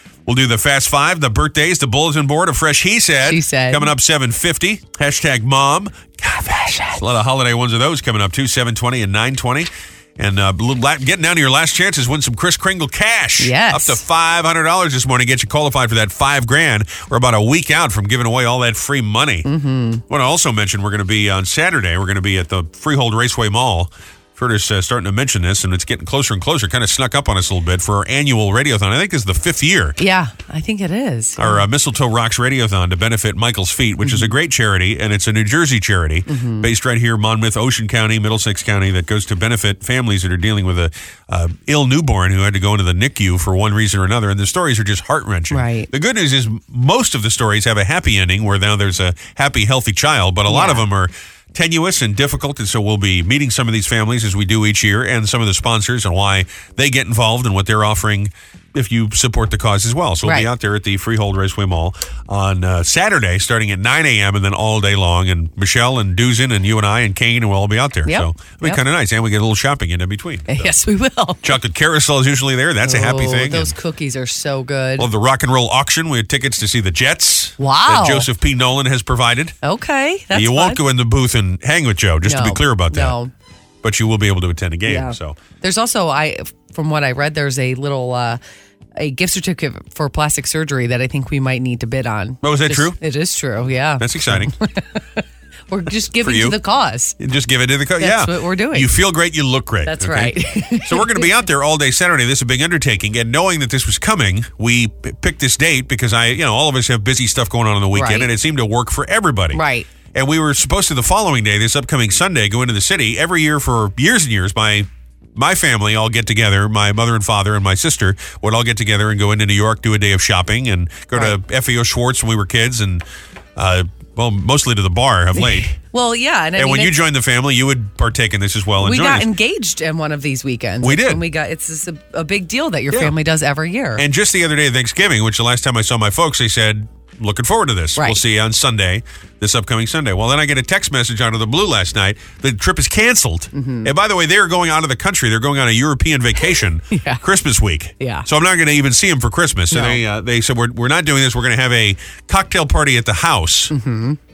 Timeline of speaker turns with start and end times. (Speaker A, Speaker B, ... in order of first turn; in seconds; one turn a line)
Speaker A: 0.2-6.0
Speaker B: 3.2-3.9
Speaker B: 6.2-7.0
Speaker A: 7.0-19.5
Speaker B: 13.4-14.0
Speaker B: 19.4-20.0
Speaker A: 20.1-29.9
Speaker B: 30.0-31.7
Speaker A: 31.4-70.6
Speaker B: 34.0-34.3
Speaker B: 36.3-36.7
Speaker B: 45.5-45.9
Speaker B: 50.5-50.8
Speaker B: 60.2-60.5
Speaker B: 68.0-68.8
Speaker B: 70.5-71.5
Speaker A: 71.4-73.7
Speaker B: 72.8-75.1
Speaker A: 75.0-79.5
Speaker B: 77.6-78.3
Speaker B: 79.6-80.8
Speaker A: 80.3-83.2
Speaker B: 82.2-83.3
Speaker A: 83.8-85.4
Speaker B: 84.8-88.4
Speaker B: 89.0-97.2
Speaker A: 92.4-93.0
Speaker A: 94.0-94.5
Speaker A: 96.2-96.6
Speaker A: 97.2-109.6
Speaker B: 98.0-98.9
Speaker B: 99.8-101.4
Speaker B: 107.9-108.3
Speaker B: 109.5-109.9
Speaker A: 110.1-123.0
Speaker A: 123.5-125.7
Speaker B: 125.4-127.0
Speaker A: 126.5-129.3
Speaker B: 128.8-134.0
Speaker A: 130.8-131.2
Speaker A: 134.0-153.7
Speaker B: 143.5-143.9
Speaker B: 146.9-147.2
Speaker B: 148.0-148.3
Speaker B: 149.7-150.0
Speaker B: 153.7-154.2